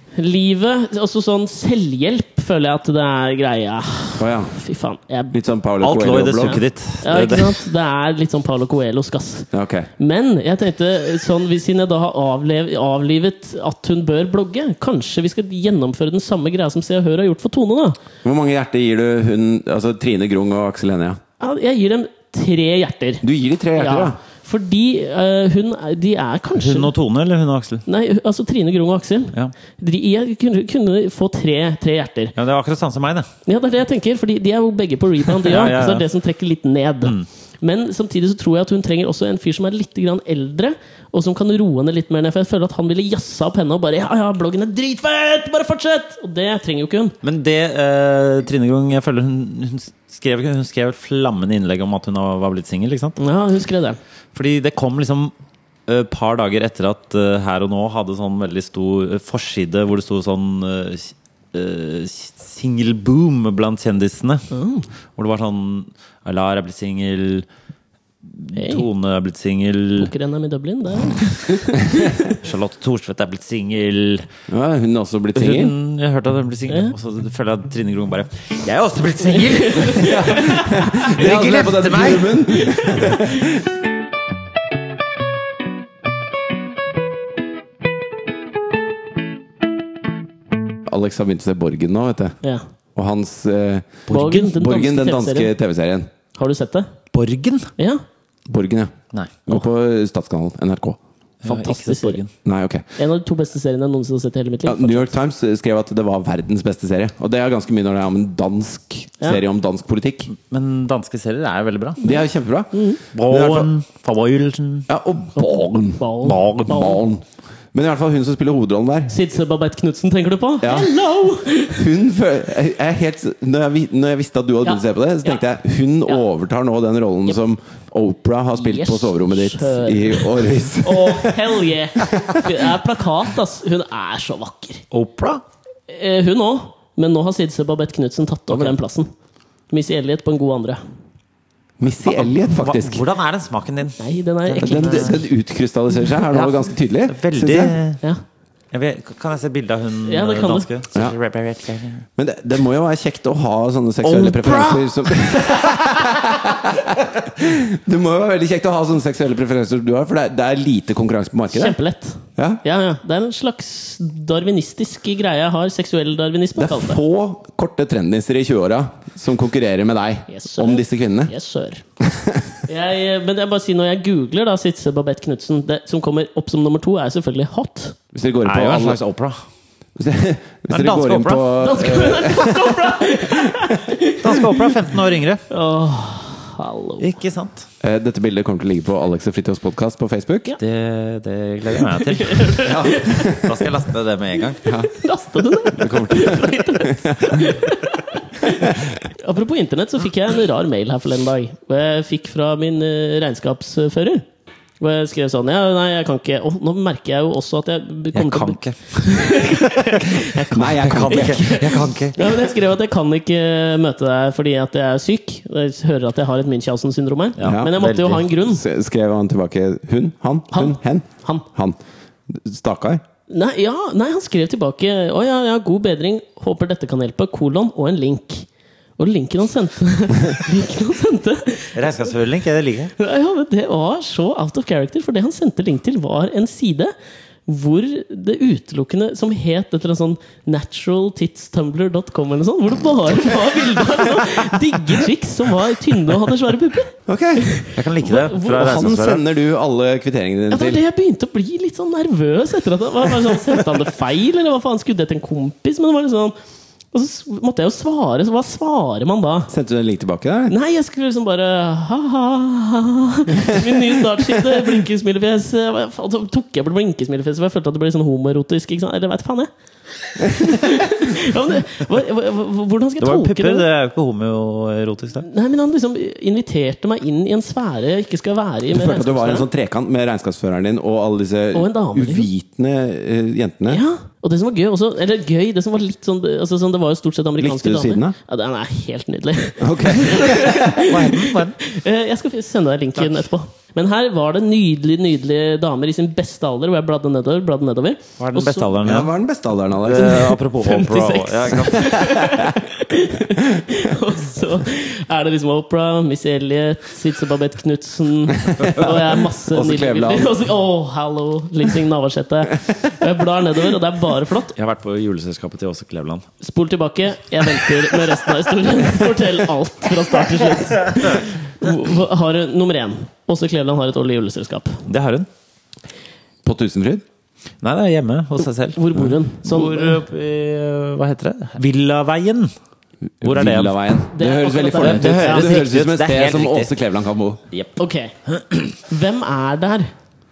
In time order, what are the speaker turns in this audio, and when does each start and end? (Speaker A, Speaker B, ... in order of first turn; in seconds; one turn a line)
Speaker A: 0.2-5.3
Speaker B: 4.2-4.5
Speaker B: 5.3-6.6
Speaker C: 5.8-7.7
Speaker A: 7.0-18.0
Speaker B: 9.5-9.9
Speaker B: 18.2-21.2
Speaker A: 21.4-23.2
Speaker B: 23.2-24.2
Speaker A: 23.8-26.9
Speaker C: 26.6-27.8
Speaker A: 27.9-32.3
Speaker C: 32.4-33.3
Speaker A: 33.5-47.1
Speaker C: 35.3-36.1
Speaker C: 47.2-53.2
Speaker A: 53.2-54.0
Speaker C: 54.3-55.3
Speaker C: 55.9-64.5
Speaker A: 64.5-64.9
Speaker C: 65.2-67.5
Speaker C: 68.2-70.1
Speaker A: 68.5-68.8
Speaker A: 70.0-72.3
Speaker C: 72.4-74.3
Speaker B: 74.5-75.7
Speaker C: 75.3-82.4
Speaker A: 76.7-76.9
Speaker A: 79.3-80.8
Speaker B: 79.9-83.7
Speaker A: 82.6-83.2
Speaker B: 90.8-92.4
Speaker B: 92.9-96.1
Speaker A: 94.1-95.5
Speaker C: 94.1-94.5
Speaker A: 96.3-96.9
Speaker C: 97.1-97.7
Speaker A: 97.8-98.0
Speaker B: 98.5-98.9
Speaker B: 99.5-101.0
Speaker C: 101.4-102.3
Speaker A: 101.5-102.2
Speaker B: 102.4-102.8
Speaker A: 103.0-105.1
Speaker B: 104.7-110.3
Speaker C: 110.3-112.0
Speaker B: 112.0-113.7
Speaker A: 112.0-113.0
Speaker C: 113.1-114.9
Speaker B: 114.9-119.2
Speaker A: 115.4-117.0
Speaker C: 116.2-117.0
Speaker A: 119.1-121.8
Speaker B: 120.6-120.9
Speaker B: 121.7-132.6
Speaker A: 124.6-125.4
Speaker A: 128.6-134.8
Speaker C: 134.9-135.4
Speaker A: 135.9-139.1
Speaker A: 139.7-140.8
Speaker B: 141.8-143.0
Speaker C: 142.3-145.2
Speaker A: 144.0-145.2
Speaker B: 144.6-147.8
Speaker C: 146.3-148.0
Speaker C: 148.7-152.0
Speaker A: 150.0-150.7
Speaker B: 152.2-161.8
Speaker C: 154.1-154.8
Speaker A: 154.5-154.8
Speaker A: 161.5-167.0
Speaker B: 162.4-162.6
Speaker B: 166.6-171.3
Speaker A: 170.3-171.8
Speaker B: 172.0-172.6
Speaker A: 172.7-178.0
Speaker B: 178.1-179.0
Speaker C: 178.4-179.4
Speaker B: 179.9-183.9
Speaker C: 180.7-181.5
Speaker A: 181.6-184.7
Speaker C: 184.2-185.4
Speaker A: 185.5-187.1
Speaker C: 187.0-187.7
Speaker B: 187.8-190.5
Speaker C: 190.6-194.6
Speaker A: 192.1-193.4
Speaker B: 192.6-193.6
Speaker B: 194.7-194.9
Speaker A: 194.7-204.2
Speaker B: 195.7-197.6
Speaker B: 198.4-199.0
Speaker A: 204.8-218.6
Speaker C: 208.1-212.3
Speaker B: 210.5-211.8
Speaker C: 217.4-218.2
Speaker B: 217.4-217.8
Speaker B: 218.4-221.8
Speaker A: 220.5-221.4
Speaker B: 222.3-223.0
Speaker A: 223.3-232.1
Speaker C: 231.7-232.9
Speaker A: 233.0-236.9
Speaker A: 237.5-248.7
Speaker B: 247.1-247.6
Speaker C: 247.7-249.2
Speaker B: 248.3-250.8
Speaker A: 250.5-256.4
Speaker A: 256.9-259.5
Speaker B: 259.5-260.5
Speaker A: 260.5-269.5
Speaker B: 263.4-264.6
Speaker A: 270.2-273.6
Speaker C: 273.0-275.2
Speaker A: 275.2-279.5
Speaker B: 278.7-283.8
Speaker A: 281.5-282.3
Speaker A: 283.7-298.7
Speaker B: 287.4-288.1
Speaker B: 289.6-290.9
Speaker C: 290.8-291.6
Speaker C: 298.2-299.1
Speaker B: 298.8-300.4
Speaker C: 299.8-302.3
Speaker A: 299.9-314.5
Speaker B: 301.7-302.5
Speaker B: 308.4-310.4
Speaker C: 314.5-316.2
Speaker A: 316.4-324.8
Speaker C: 324.9-325.3
Speaker B: 326.4-327.0
Speaker C: 327.6-332.5
Speaker A: 328.7-330.0
Speaker B: 333.2-337.4
Speaker C: 333.2-334.0
Speaker A: 334.1-335.5
Speaker C: 334.8-336.7
Speaker A: 337.8-338.1
Speaker C: 338.3-338.7
Speaker A: 338.8-339.9